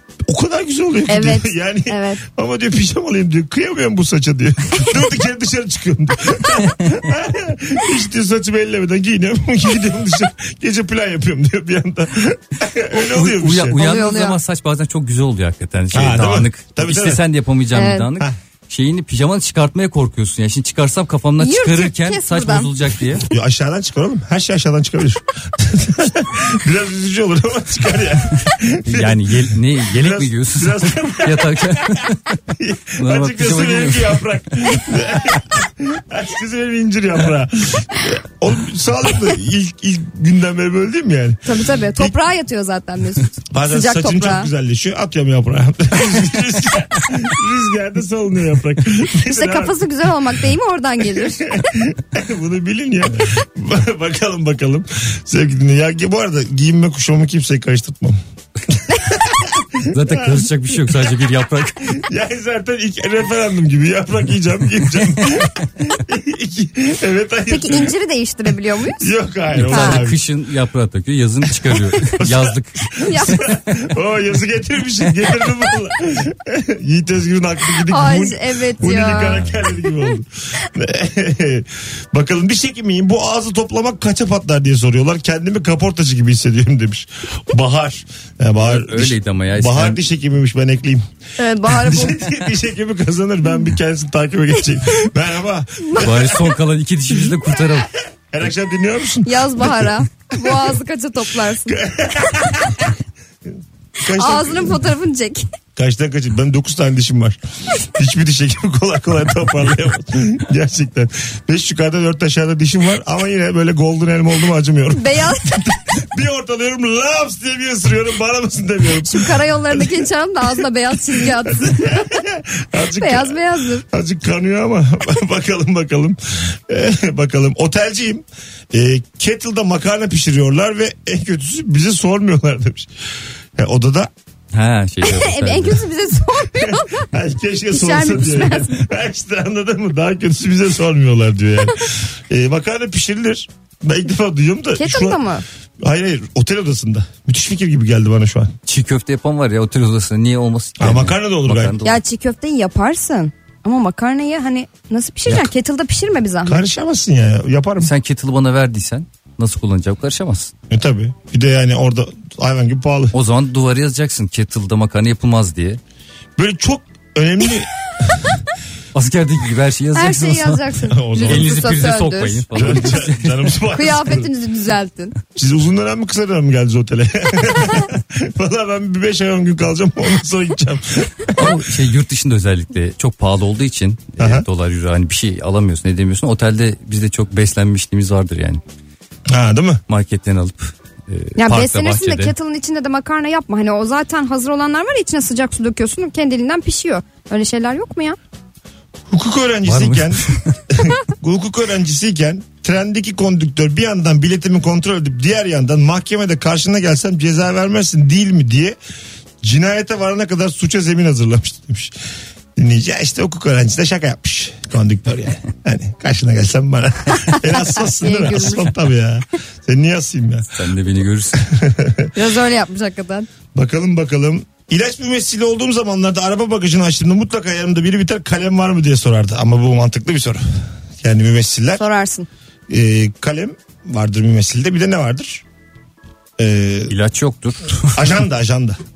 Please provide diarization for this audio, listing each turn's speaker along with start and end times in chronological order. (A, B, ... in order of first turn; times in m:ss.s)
0:00.3-0:13.8 A
0:01.1-0:02.2 B
0:12.9-0:23.2 C
0:13.8-0:14.4 B
0:15.9-0:17.2 A
0:17.7-0:18.1 B
0:21.4-0:22.7 B
0:23.2-0:41.4 A
0:28.8-0:32.2 C
0:33.0-0:34.3 C
0:41.4-0:44.5 B
0:43.5-0:49.8 A
0:49.3-0:51.5 B
0:51.2-1:01.1 A
0:59.9-1:02.0 C
1:01.9-1:07.9 A
1:07.5-1:09.1 B
1:09.0-1:10.2 A
1:09.5-1:13.4 C
1:09.7-1:10.0 B
1:12.1-1:31.0 A
1:13.0-1:13.4 B
1:17.9-1:19.7 B
1:28.6-1:30.0 C
1:31.4-1:32.3 B
1:31.7-1:36.6 A
1:36.0-1:37.9 C
1:37.2-1:40.8 A
1:39.2-1:41.8 B
1:41.6-1:43.0 A
1:44.0-1:44.8 A
1:44.1-1:45.4 B
1:45.8-2:00.0 A
1:55.0-1:55.7 B
1:59.0-2:02.1 B
2:01.5-2:12.9 A
2:02.9-2:03.8 B
2:13.6-2:14.1 A
2:14.5-2:15.8 C
2:15.0-2:17.1 B
2:16.6-2:25.2 A
2:17.7-2:18.8 B
2:24.8-2:25.4 B
2:25.8-2:28.5 A
2:28.7-2:32.0 C
2:30.8-2:31.8 A
2:31.8-2:36.6 B
2:36.4-2:37.9 A
2:37.8-2:40.5 C
2:40.7-2:43.1 A
2:43.1-2:45.8 C
2:46.4-2:48.4 A
2:48.9-2:50.6 C
2:49.9-2:52.8 B
2:50.9-2:51.8 A
2:51.2-2:53.4 C
2:52.5-2:54.3 A
2:53.7-2:55.1 B
2:55.3-3:01.6 A
3:01.3-3:08.6 C
3:04.2-3:04.4 A
3:09.3-3:09.8 A
3:09.9-3:12.3 C
3:11.4-3:18.2 B
3:19.1-3:28.8 A
3:19.6-3:20.6 C
3:29.4-3:31.9 A
3:32.6-3:40.6 A
3:37.3-3:38.7 B
3:40.5-3:41.4 C
3:41.4-3:42.1 A
3:42.1-3:43.3 B
3:43.5-3:50.4 A
3:51.0-3:51.8 A
3:51.8-3:52.3 B
3:52.7-3:55.4 A
3:56.4-3:57.0 A
3:56.9-3:58.1 C
3:57.9-3:58.8 A